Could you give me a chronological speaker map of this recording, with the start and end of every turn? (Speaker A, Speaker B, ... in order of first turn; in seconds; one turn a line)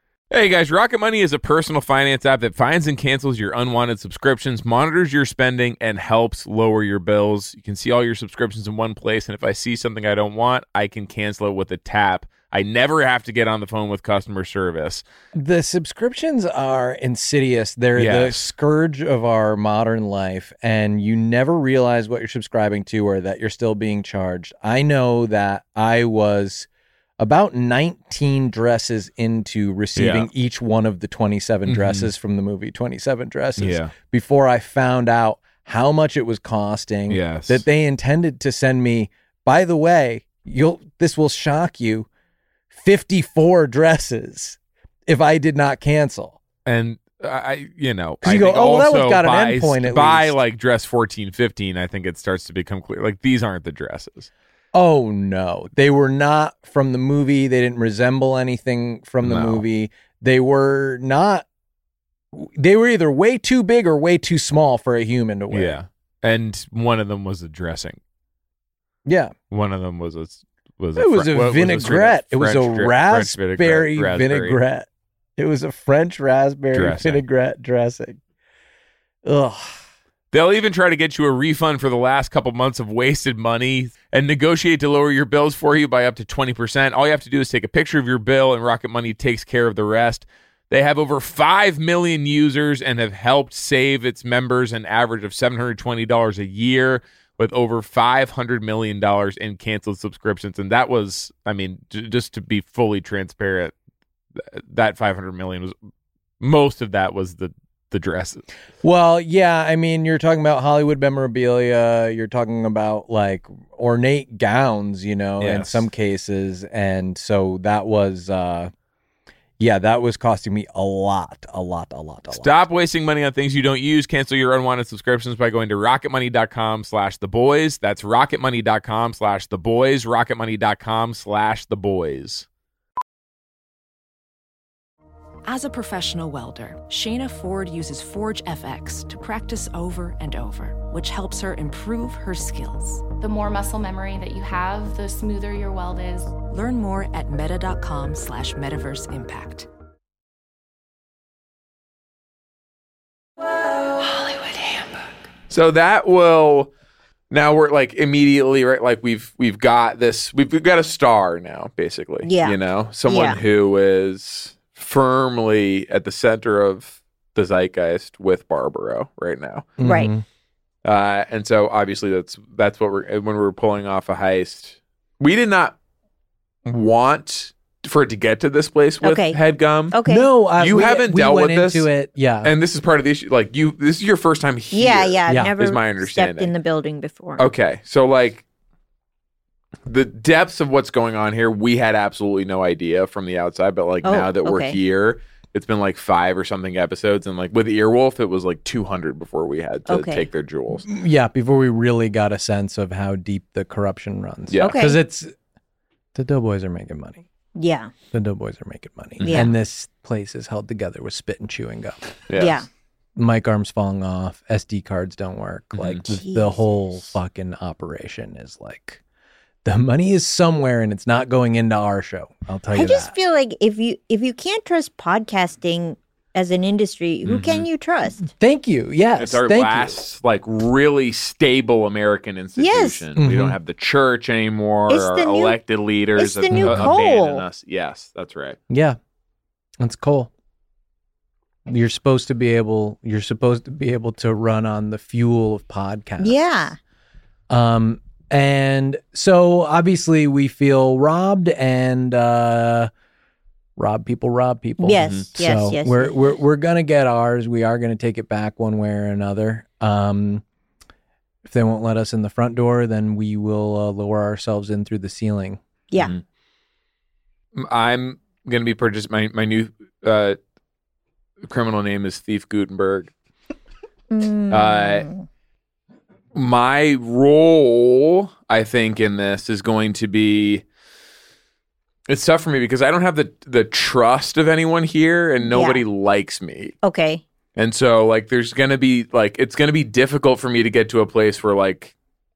Speaker A: 0.3-15.0
Speaker B: 15.3-26.7
Speaker A: 18.0-18.4
Speaker B: 27.2-42.1
Speaker A: 30.0-30.3
Speaker A: 31.7-32.1
Speaker A: 33.6-33.9
Speaker A: 37.1-37.6
Speaker B: 42.7-46.4
Speaker A: 46.7-54.3
Speaker B: 48.2-50.4
Speaker B: 54.7-61.5
Speaker A: 59.2-59.6
Speaker B: 62.3-65.8
Speaker A: 65.5-68.0
Speaker B: 69.1-69.3
Speaker A: 69.5-74.6
Speaker B: 71.0-78.2
Speaker A: 76.7-77.2
Speaker B: 79.2-79.8
Speaker A: 80.3-103.7
Speaker A: 104.4-105.7
Speaker A: 106.4-108.4
Speaker B: 108.8-118.7
Speaker A: 115.4-115.9
Speaker B: 119.6-122.5
Speaker A: 122.3-132.5
Speaker C: 135.4-143.1
Speaker D: 143.2-146.3
Speaker C: 146.4-149.7
Speaker A: 155.5-156.7
Speaker A: 157.3-169.7
Speaker E: 162.2-163.4
Speaker B: 169.8-170.2
Speaker E: 169.8-170.1
Speaker A: 170.8-175.8
Speaker A: 176.7-180.0
Speaker E: 179.0-179.4
Speaker E: 179.9-180.3
Speaker B: 180.1-182.5
Speaker A: 180.6-181.9
Speaker A: 182.4-186.5
Speaker E: 184.7-187.4
Speaker B: 185.3-185.6
Speaker A: 187.4-188.4
Speaker A: 189.9-200.9
Speaker E: 194.0-194.8
Speaker E: 199.9-200.3
Speaker B: 200.8-205.3
Speaker A: 204.5-204.8
Speaker E: 204.6-205.0
Speaker B: 206.2-207.2
Speaker E: 207.6-207.9
Speaker B: 208.1-212.0
Speaker A: 209.2-209.5
Speaker E: 209.2-209.5
Speaker A: 212.3-212.6
Speaker E: 212.4-212.7
Speaker B: 213.2-219.0
Speaker A: 215.8-216.0
Speaker E: 216.1-216.6
Speaker B: 219.7-223.1
Speaker E: 222.7-228.3
Speaker A: 227.2-227.7
Speaker B: 228.3-230.0
Speaker A: 229.2-238.6
Speaker E: 232.6-233.0
Speaker B: 233.2-233.6
Speaker E: 234.9-235.6
Speaker E: 236.2-237.4
Speaker B: 236.5-236.9
Speaker B: 238.7-239.0
Speaker B: 239.8-240.3
Speaker B: 241.7-246.4
Speaker E: 246.2-246.8
Speaker B: 247.5-252.9
Speaker B: 253.8-260.4
Speaker E: 254.8-256.1
Speaker B: 261.5-265.6
Speaker A: 267.6-270.4
Speaker A: 271.4-273.1
Speaker E: 274.1-275.2
Speaker A: 274.5-275.1
Speaker A: 276.3-280.6
Speaker A: 282.1-286.8
Speaker E: 285.4-285.8
Speaker E: 286.8-287.2
Speaker A: 287.6-291.9